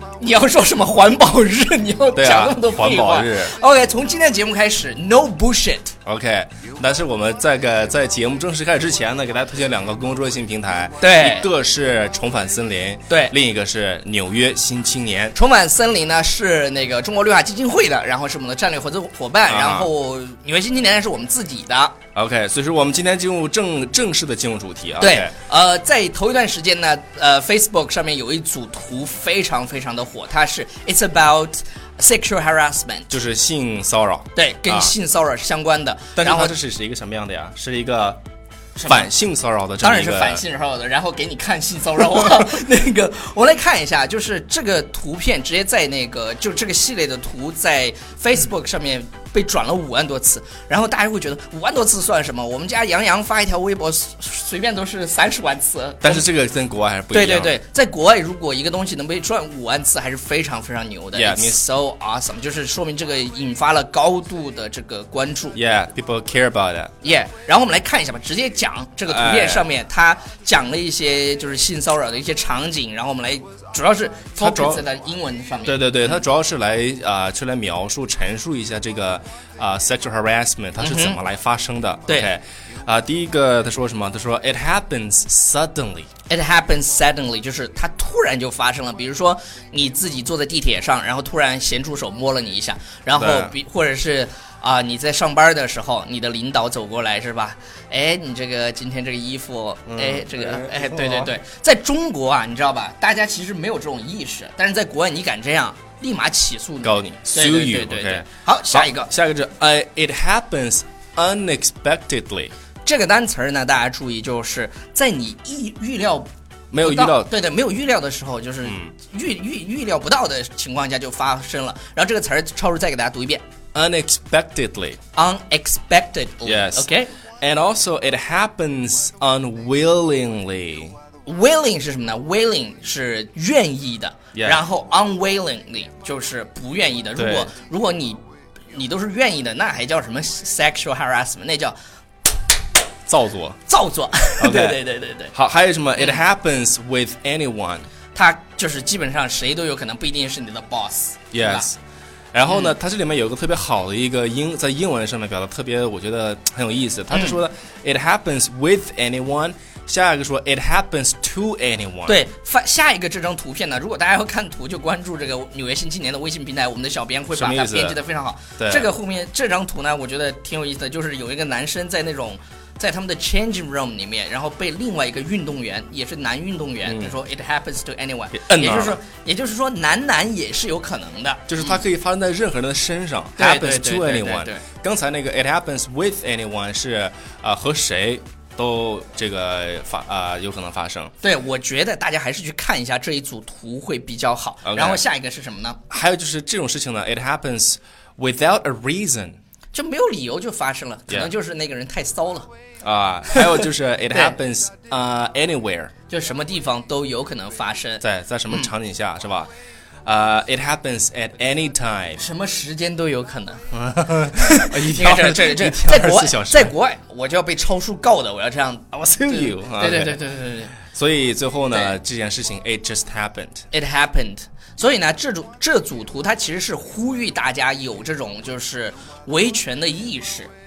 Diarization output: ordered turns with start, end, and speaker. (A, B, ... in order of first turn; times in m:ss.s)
0:00.2-0:05.9 A
0:02.1-0:03.5 B
0:06.0-0:15.4 B
0:11.0-0:11.5 A
0:13.1-0:13.3 A
0:15.3-0:22.0 A
0:19.5-0:19.9 B
0:22.1-0:25.3 B
0:25.0-0:33.1 A
0:33.1-0:34.9 B
0:34.3-0:36.5 A
0:36.2-0:38.2 B
0:38.8-0:39.1 A
0:38.9-0:40.4 B
0:39.8-0:56.2 A
0:56.0-0:57.5 B
0:57.1-1:05.6 A
1:01.1-1:01.6 B
1:05.5-1:06.9 B
1:07.0-1:16.2 A
1:09.1-1:09.6 B
1:14.4-1:14.8 B
1:15.6-1:26.1 B
1:20.8-1:21.2 A
1:22.1-1:22.3 A
1:26.3-1:49.1 A
1:33.2-1:33.5 B
1:39.9-1:41.3 B
1:46.8-1:52.5 B
1:52.8-2:03.4 A
1:56.7-1:57.3 B
1:58.6-1:58.9 B
2:03.7-2:05.0 B
2:05.1-2:07.1 A
2:06.4-2:06.9 B
2:07.4-2:10.9 B
2:11.2-2:18.2 A
2:14.3-2:14.6 B
2:17.2-2:17.5 B
2:18.7-2:21.8 A
2:23.1-2:23.6 B
2:23.7-2:25.3 A
2:24.4-2:24.8 B
2:25.3-2:27.8 B
2:28.1-2:31.7 A
2:31.3-2:31.8 B
2:32.3-2:42.2 B
2:32.5-2:32.7 A
2:37.1-2:37.4 A
2:42.0-3:01.8 A
2:47.3-2:48.0 B
2:48.6-2:48.9 B
2:56.8-2:57.2 B
2:58.3-2:59.0 B
3:01.5-3:11.1 B
3:03.4-3:04.6 A
3:11.2-3:15.8 A
3:14.6-3:15.0 B
3:15.9-3:19.4 B
3:19.7-3:22.5 A
3:22.8-3:25.9 B
3:23.3-3:24.4 A
3:26.1-3:28.7 A
3:28.0-3:29.5 B
3:30.0-3:32.2 B
3:32.2-3:33.7 A
3:33.7-3:36.7 B
3:34.3-3:40.7 A
3:39.0-3:40.2 B
3:40.8-3:43.6 B
3:41.7-3:42.0 A
3:43.7-3:50.5 A